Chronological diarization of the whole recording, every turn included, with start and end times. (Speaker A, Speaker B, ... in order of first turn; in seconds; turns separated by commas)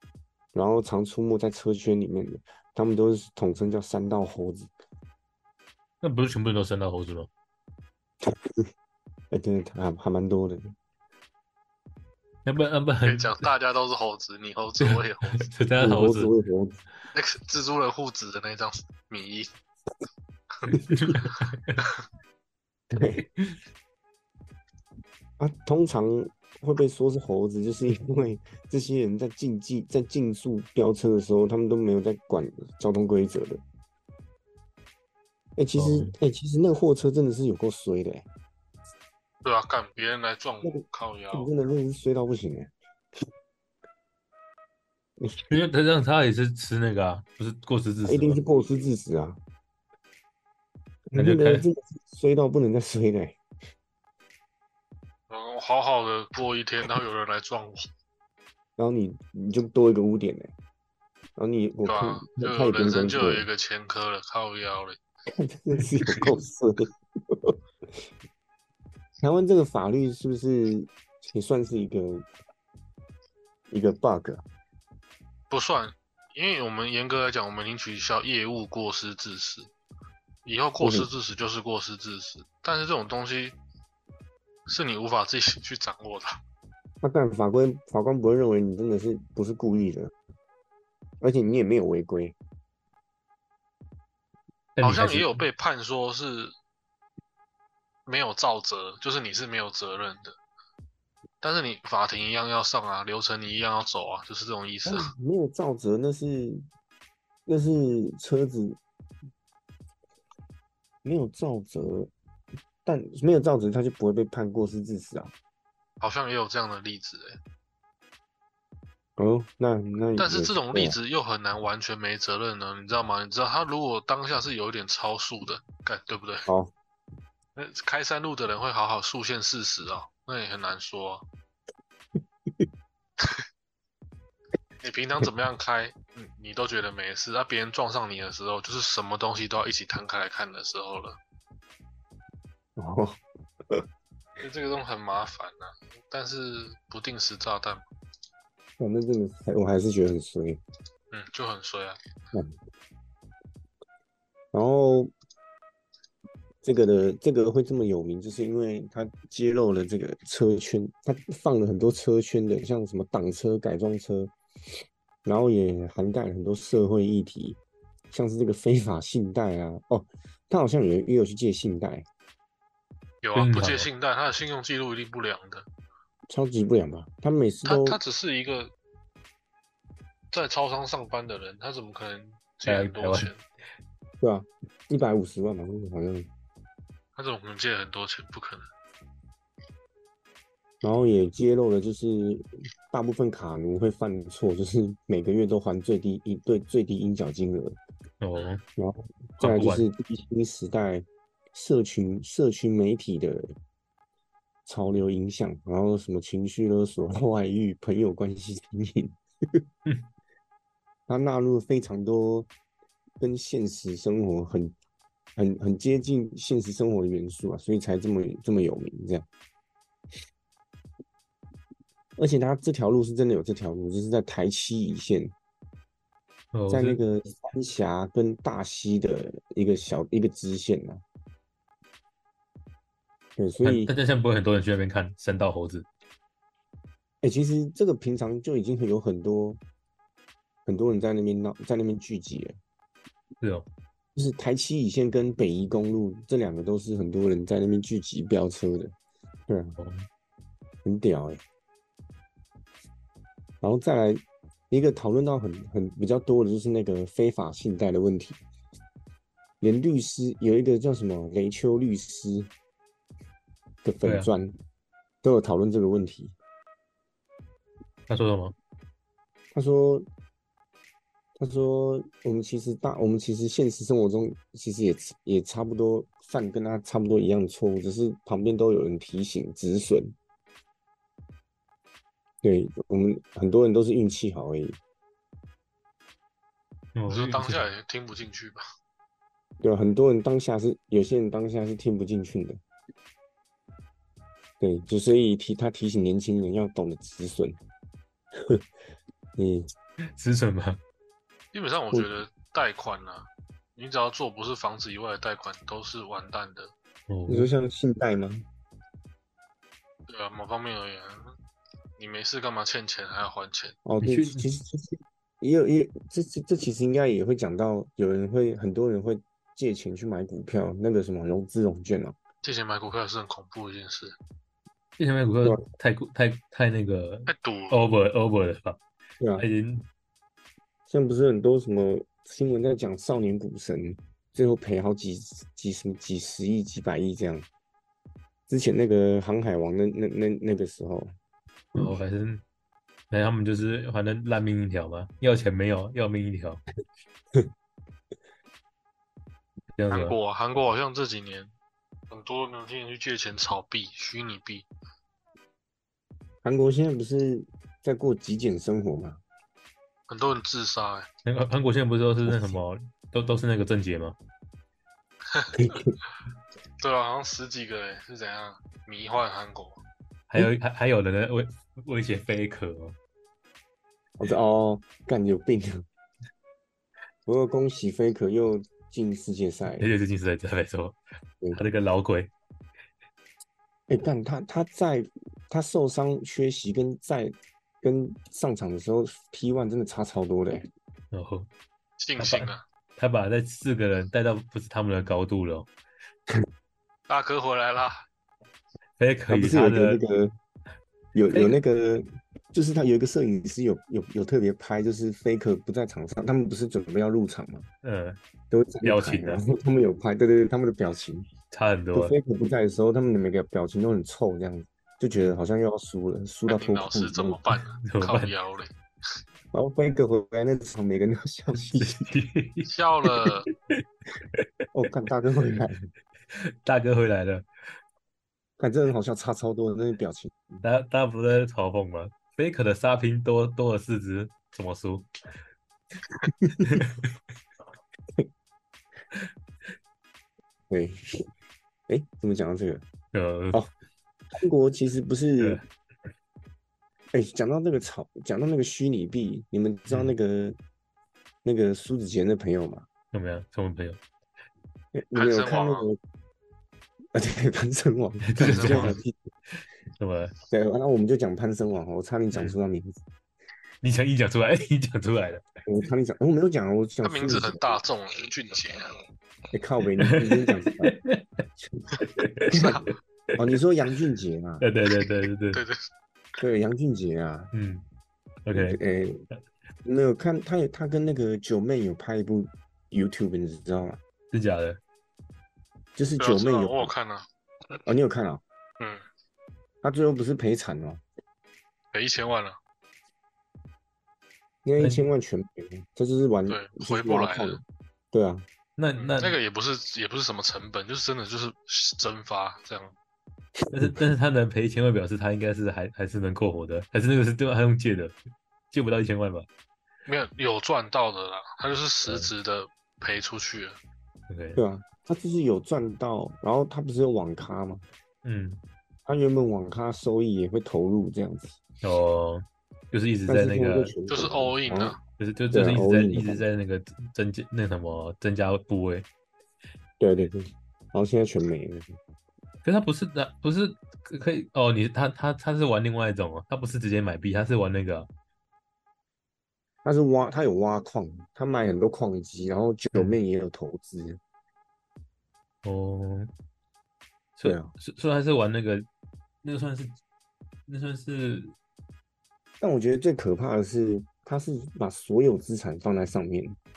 Speaker A: 0.5-4.7, Speaker B: 6.0-7.3, Speaker A: 9.3-10.7, Speaker B: 12.4-13.5, Speaker C: 13.0-15.5, Speaker B: 14.8-16.3, Speaker A: 15.8-16.8, Speaker C: 17.1-19.5, Speaker A: 20.7-21.2, Speaker B: 20.9-21.8, Speaker A: 22.9-23.2, Speaker A: 25.4-33.6, Speaker A: 35.6-38.3, Speaker B: 35.8-36.1, Speaker C: 39.4-41.5, Speaker A: 40.6-42.7, Speaker B: 45.5-48.4, Speaker A: 48.0-49.4, Speaker A: 51.1-53.4, Speaker B: 51.1-51.6, Speaker C: 55.3-57.9, Speaker A: 58.8-60.5, Speaker A: 61.4-63.5, Speaker C: 61.9-65.0, Speaker A: 65.2-67.5, Speaker A: 69.2-72.2, Speaker A: 73.7-74.4, Speaker C: 75.5-79.7, Speaker C: 80.4-83.5, Speaker A: 80.8-81.1, Speaker C: 84.7-86.4, Speaker A: 87.0-90.1, Speaker A: 91.2-92.3, Speaker B: 94.8-95.3, Speaker C: 94.8-96.5, Speaker C: 98.0-100.3, Speaker C: 101.4-105.1, Speaker A: 104.8-106.6, Speaker A: 107.5-108.8, Speaker A: 111.0-112.1, Speaker A: 112.8-115.3, Speaker C: 116.0-117.4, Speaker A: 119.2-121.0, Speaker C: 120.2-126.5, Speaker A: 126.5-126.7, Speaker C: 127.5-131.2, Speaker C: 134.8-141.2, Speaker A: 142.8-143.8, Speaker C: 144.4-147.8, Speaker A: 148.8-150.6, Speaker C: 151.1-152.0, Speaker A: 154.5-155.1, Speaker A: 156.6-164.3, Speaker A: 165.2-167.6, Speaker A: 168.1-172.1, Speaker C: 173.2-175.7, Speaker B: 173.3-173.9, Speaker A: 176.3-178.0, Speaker C: 177.7-178.7, Speaker C: 180.3-183.4, Speaker B: 182.7-183.3, Speaker A: 184.2-186.3, Speaker C: 187.2-188.7, Speaker A: 190.8-197.8, Speaker B: 198.2-198.6, Speaker A: 198.8-203.5, Speaker B: 199.4-199.8, Speaker A: 204.7-209.6, Speaker A: 211.1-212.5, Speaker A: 213.2-214.7, Speaker A: 215.3-219.2, Speaker A: 222.2-225.3, Speaker B: 226.5-227.0, Speaker A: 226.7-231.0, Speaker A: 233.4-233.9, Speaker B: 233.6-235.9, Speaker A: 237.2-239.6, Speaker A: 240.7-242.6, Speaker B: 243.4-243.7, Speaker A: 244.1-248.9, Speaker A: 249.5-249.7, Speaker B: 249.8-250.1, Speaker A: 250.8-251.4, Speaker A: 253.6-258.4, Speaker A: 259.6-262.5, Speaker A: 263.8-264.5, Speaker B: 264.0-264.3, Speaker A: 265.2-266.3, Speaker B: 268.1-268.5, Speaker A: 269.5-270.1, Speaker A: 271.4-280.1, Speaker A: 282.4-284.8, Speaker B: 286.9-287.7, Speaker C: 287.1-288.6, Speaker A: 289.6-292.6, Speaker A: 294.6-297.6, Speaker A: 299.4-299.7, Speaker B: 300.2-300.8, Speaker C: 301.5-306.7, Speaker B: 307.1-307.5, Speaker A: 307.3-308.4, Speaker C: 310.1-311.3, Speaker C: 312.0-313.8, Speaker A: 313.8-322.1, Speaker B: 314.0-314.5, Speaker C: 322.4-324.1, Speaker B: 325.0-328.8, Speaker C: 327.3-327.8, Speaker A: 329.2-329.4, Speaker B: 329.4-329.9, Speaker A: 330.9-337.5, Speaker A: 338.5-341.1, Speaker B: 341.7-342.4, Speaker B: 343.1-346.6, Speaker B: 349.8-350.1, Speaker C: 349.9-351.5, Speaker C: 352.1-354.6, Speaker A: 356.4-359.2, Speaker C: 360.1-361.1, Speaker B: 361.2-364.2, Speaker A: 365.5-365.9, Speaker C: 366.8-369.8, Speaker B: 370.3-372.9, Speaker A: 374.2-375.8, Speaker A: 377.2-379.9, Speaker B: 379.8-381.0, Speaker B: 381.5-382.3, Speaker A: 383.9-390.7, Speaker B: 391.1-391.5, Speaker C: 392.0-392.6, Speaker B: 392.2-395.7, Speaker C: 397.1-398.0, Speaker B: 399.0-400.0, Speaker A: 399.3-400.3, Speaker A: 401.1-407.7, Speaker B: 401.3-401.6, Speaker B: 407.8-408.2, Speaker A: 408.5-411.3, Speaker B: 408.8-409.4, Speaker B: 411.5-412.1, Speaker A: 411.9-417.4, Speaker C: 416.5-418.7, Speaker B: 417.8-418.3, Speaker A: 419.5-422.1, Speaker B: 421.8-424.4, Speaker C: 422.7-423.4, Speaker A: 424.7-425.9, Speaker B: 426.3-427.4, Speaker A: 428.6-430.6, Speaker B: 430.6-435.1, Speaker B: 436.5-437.1, Speaker A: 440.7-441.0, Speaker A: 441.9-442.8, Speaker B: 443.1-443.6, Speaker A: 444.3-445.6, Speaker A: 447.1-450.6, Speaker B: 449.9-450.1, Speaker A: 451.4-452.9, Speaker B: 453.1-454.0, Speaker A: 454.9-456.0, Speaker C: 455.1-455.9, Speaker A: 457.1-459.1, Speaker B: 458.2-458.9, Speaker C: 458.4-458.9, Speaker B: 460.0-460.3, Speaker A: 460.5-463.0, Speaker B: 463.8-465.4, Speaker A: 465.6-467.8, Speaker C: 467.0-469.0, Speaker A: 469.5-470.9, Speaker B: 470.0-470.4, Speaker B: 470.9-471.2, Speaker A: 471.6-471.9, Speaker B: 472.1-472.7, Speaker A: 472.5-472.8, Speaker C: 472.5-472.9, Speaker A: 473.4-474.6, Speaker B: 474.6-475.6, Speaker C: 475.5-475.9, Speaker A: 476.4-477.5, Speaker B: 477.5-477.9, Speaker B: 478.4-478.8, Speaker A: 478.5-479.2, Speaker A: 479.8-484.0, Speaker B: 484.3-484.8, Speaker A: 486.0-486.9, Speaker C: 486.2-487.2, Speaker A: 487.9-488.4, Speaker A: 489.8-491.0, Speaker C: 491.9-492.6, Speaker A: 494.6-497.6, Speaker B: 494.8-495.0, Speaker C: 496.5-497.6, Speaker A: 498.1-498.4, Speaker B: 498.8-499.4, Speaker C: 499.0-502.9, Speaker B: 503.7-508.1, Speaker B: 508.7-509.5, Speaker C: 510.1-513.8, Speaker B: 512.0-512.3, Speaker B: 514.3-514.6, Speaker A: 514.5-517.8, Speaker B: 518.2-518.6, Speaker A: 519.0-521.6, Speaker B: 521.8-523.9, Speaker A: 523.3-525.0, Speaker C: 524.1-525.0, Speaker B: 525.2-529.1, Speaker A: 525.5-526.4, Speaker A: 530.0-532.0, Speaker B: 532.6-538.1, Speaker A: 539.8-544.2, Speaker B: 545.6-546.3, Speaker B: 547.4-548.9, Speaker A: 547.4-547.7, Speaker B: 549.4-550.0, Speaker B: 550.7-551.5, Speaker A: 552.6-556.6